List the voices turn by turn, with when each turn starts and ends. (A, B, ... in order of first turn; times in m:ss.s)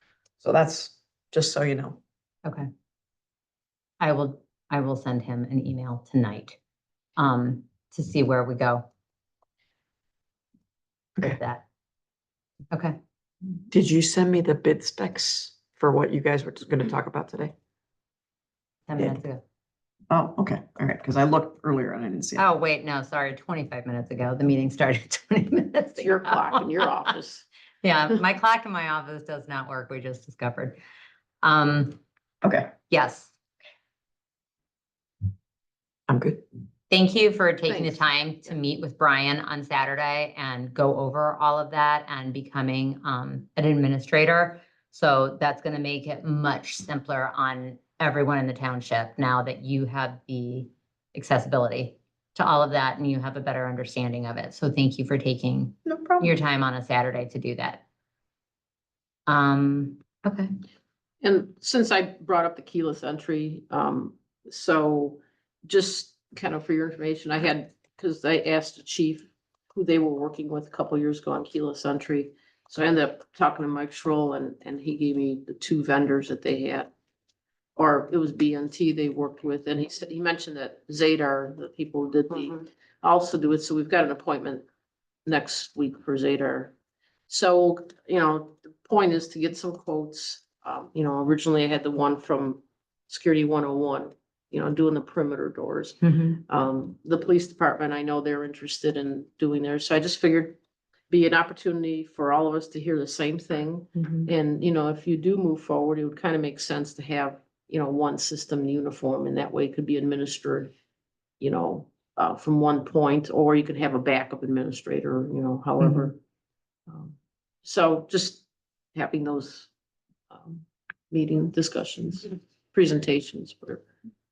0:00.4-0:02.0 A
0:04.0-0:06.6 B
0:07.2-0:08.9 B
0:11.2-0:11.6 B
0:12.7-0:13.0 B
0:13.7-0:17.5 A
0:18.9-0:19.4 B
0:20.1-0:22.5 A
0:22.4-0:27.1 B
0:26.0-0:27.4 C
0:27.8-0:30.8 B
0:31.4-0:32.0 B
0:32.4-0:32.7 A
0:32.9-0:33.3 B
0:36.1-0:36.4 A
0:36.9-0:57.8 B
0:37.7-0:38.1 C
0:55.9-0:56.3 A
0:59.3-1:00.5 B
1:01.2-1:16.9 C
1:17.8-1:24.6 C
1:25.3-1:26.7 C
1:27.3-1:40.6 C
1:36.0-1:36.4 B
1:41.1-1:50.7 C
1:44.0-1:44.3 B
1:51.4-1:56.2 C
1:55.8-1:56.1 B
1:56.9-1:59.7 C
2:00.3-2:03.9 C